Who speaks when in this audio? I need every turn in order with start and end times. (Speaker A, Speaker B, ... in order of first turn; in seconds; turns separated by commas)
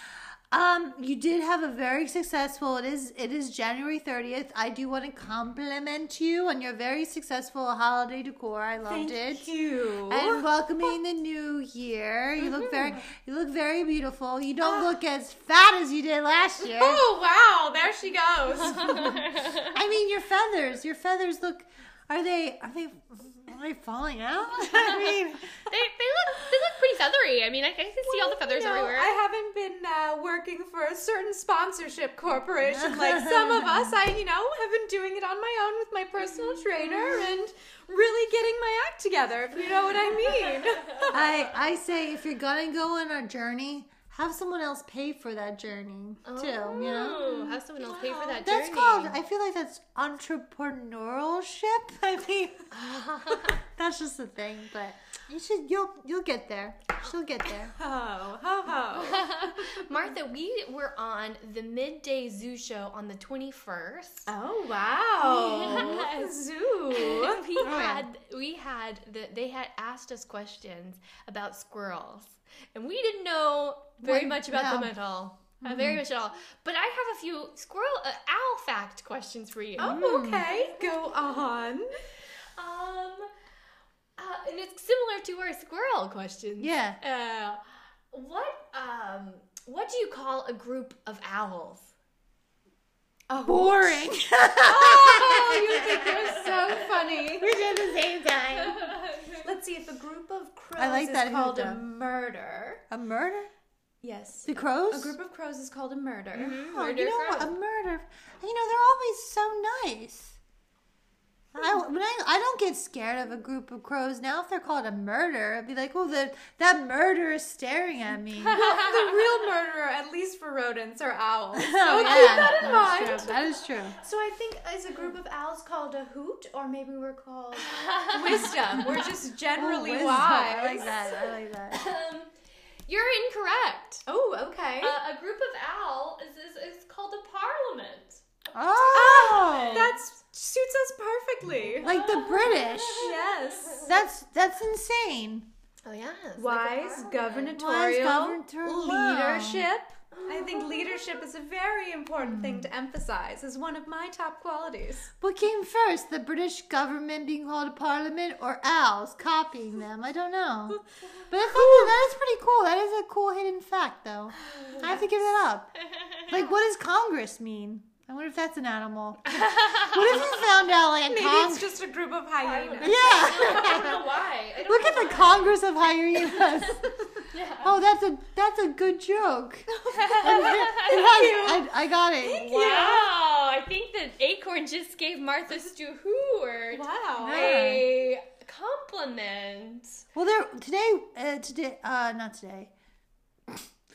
Speaker A: 0.5-9.5, Speaker B: 8.8-10.4, Speaker A: 10.1-17.0, Speaker C: 12.4-12.9, Speaker B: 14.6-14.9, Speaker B: 16.6-19.2, Speaker C: 18.7-19.7, Speaker A: 18.8-25.5, Speaker C: 24.5-29.2, Speaker B: 28.0-41.4, Speaker A: 32.6-34.0, Speaker A: 41.1-52.6, Speaker C: 46.2-49.2, Speaker B: 47.9-48.4, Speaker C: 52.7-53.6, Speaker A: 53.8-57.7, Speaker B: 57.7-59.8, Speaker C: 58.9-64.3, Speaker B: 64.3-67.6, Speaker C: 65.2-80.0, Speaker A: 65.5-66.1, Speaker A: 67.6-68.1, Speaker A: 74.0-74.9, Speaker A: 75.6-76.0, Speaker B: 79.8-81.9, Speaker A: 79.8-80.5, Speaker C: 80.7-81.2, Speaker C: 82.5-83.3, Speaker C: 84.2-91.9, Speaker A: 86.6-87.0, Speaker B: 93.3-97.6, Speaker A: 93.4-96.4, Speaker A: 97.4-99.0, Speaker C: 98.6-99.5, Speaker B: 99.4-102.8, Speaker A: 100.8-101.8, Speaker A: 102.9-103.5, Speaker B: 104.0-106.7, Speaker A: 104.5-105.2, Speaker C: 106.3-107.5, Speaker A: 106.7-110.4, Speaker A: 111.5-118.6, Speaker C: 118.4-119.1, Speaker B: 118.5-123.4, Speaker A: 121.5-124.0, Speaker C: 121.9-123.0, Speaker B: 124.0-131.0, Speaker C: 127.5-128.8, Speaker A: 129.5-131.8, Speaker C: 131.7-132.3, Speaker C: 132.9-134.0, Speaker B: 134.1-135.0, Speaker C: 134.8-138.2, Speaker A: 138.5-139.9, Speaker B: 138.9-141.9, Speaker C: 139.3-139.8, Speaker C: 141.6-143.9, Speaker A: 141.8-143.2, Speaker B: 143.0-143.9, Speaker A: 143.8-145.5, Speaker C: 145.8-147.5, Speaker B: 146.4-155.1, Speaker A: 147.5-149.7, Speaker C: 150.1-151.2, Speaker A: 152.2-152.7, Speaker A: 155.2-165.7, Speaker B: 161.5-161.9, Speaker C: 164.4-164.8, Speaker B: 164.7-165.0, Speaker A: 166.3-171.7, Speaker C: 169.2-170.4, Speaker B: 171.1-173.8, Speaker C: 172.4-175.6, Speaker A: 172.8-174.1, Speaker A: 174.7-176.8, Speaker B: 176.4-177.1, Speaker C: 177.3-177.7, Speaker A: 177.6-179.7, Speaker B: 179.7-181.7, Speaker C: 179.9-181.5, Speaker A: 180.2-182.5, Speaker B: 182.2-183.1, Speaker C: 182.3-190.0, Speaker B: 186.7-187.6, Speaker A: 187.2-187.9, Speaker A: 190.1-192.7